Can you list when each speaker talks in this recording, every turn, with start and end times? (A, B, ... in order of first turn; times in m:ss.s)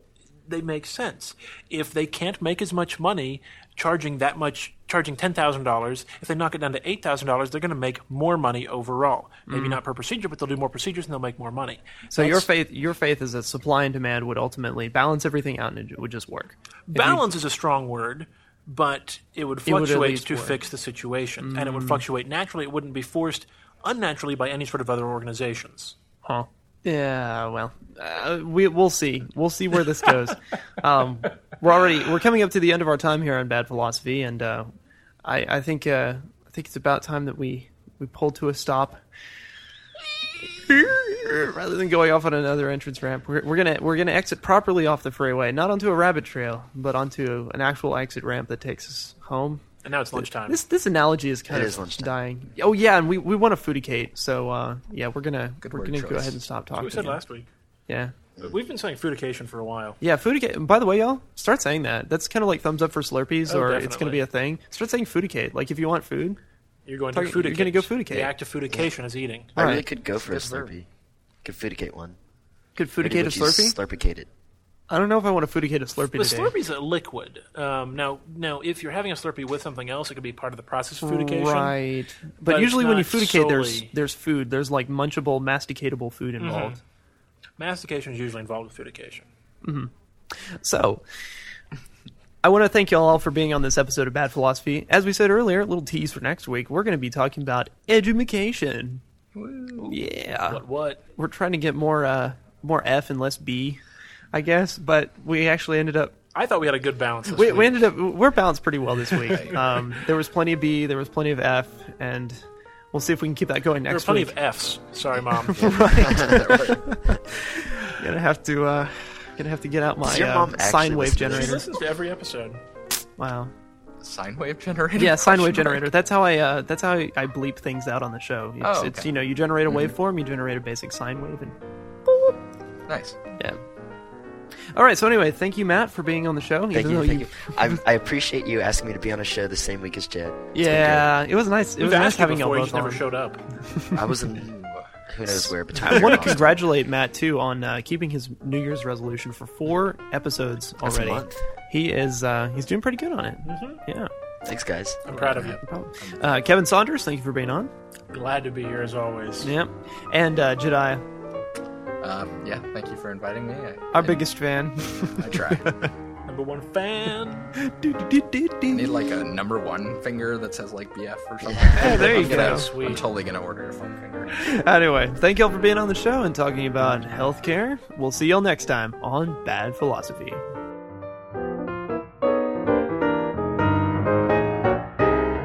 0:00.5-0:12.5 A
0:09.5-0:09.8 B
0:12.1-0:17.3 B
0:16.9-0:25.9 A
0:19.6-0:20.6 B
0:21.4-0:22.0 B
0:26.2-0:34.7 B
0:35.2-0:39.0 B
0:40.4-0:57.2 B
0:49.8-0:50.6 A
0:51.5-0:52.1 C
0:55.6-0:56.4 D
0:56.8-0:57.5 A
0:57.9-0:58.1 B
0:58.4-1:00.0 A
1:00.0-1:06.4 B
1:03.5-1:04.2 A
1:06.8-1:09.5 A
1:07.1-1:08.3 B
1:09.5-1:10.8 C
1:09.6-1:09.8 B
1:10.2-1:10.7 D
1:11.4-1:12.2 C
1:12.8-1:13.8 B
1:13.0-1:14.3 C
1:14.9-1:16.5 B
1:16.1-1:21.8 A
1:21.0-1:26.8 B
1:22.4-1:23.9 A
1:26.4-1:26.8 A
1:27.6-1:29.2 A
1:29.6-1:31.0 B
1:32.4-1:39.0 B
1:39.3-1:40.0 D
1:39.8-1:40.6 B
1:40.5-1:41.0 A
1:41.1-1:43.8 B
1:44.3-1:46.1 B
1:46.3-1:47.9 A
1:47.2-1:52.4 B
1:49.2-1:49.6 D
1:52.9-1:54.3 B
1:53.9-1:55.8 A
1:55.4-2:01.6 B
1:56.0-1:56.6 C
1:56.2-1:56.7 D
2:00.0-2:01.6 C
2:01.2-2:02.6 A
2:03.2-2:03.5 B
2:04.0-2:05.8 D
2:05.0-2:12.3 B
2:08.6-2:09.1 D
2:09.7-2:09.9 D
2:12.9-2:13.2 D
2:14.7-2:17.8 B
2:16.7-2:21.1 C
2:20.5-2:23.0 B
2:21.8-2:23.4 A
2:23.9-2:24.5 C
2:24.3-2:24.8 D
2:25.1-2:26.5 C
2:25.7-2:34.1 B
2:25.8-2:26.5 D
2:30.8-2:31.4 C
2:33.4-2:33.8 A
2:34.4-2:35.0 C
2:35.0-2:35.6 A
2:35.1-2:36.4 D
2:35.4-2:37.7 B
2:38.1-2:39.5 A
2:39.4-2:41.0 B
2:42.0-2:44.2 D
2:43.9-2:45.9 B
2:45.1-2:45.7 D
2:46.3-2:47.5 A
2:47.6-2:48.9 B
2:48.7-2:54.4 D
2:51.7-2:52.7 B
2:51.7-2:53.1 A
2:54.4-3:00.4 B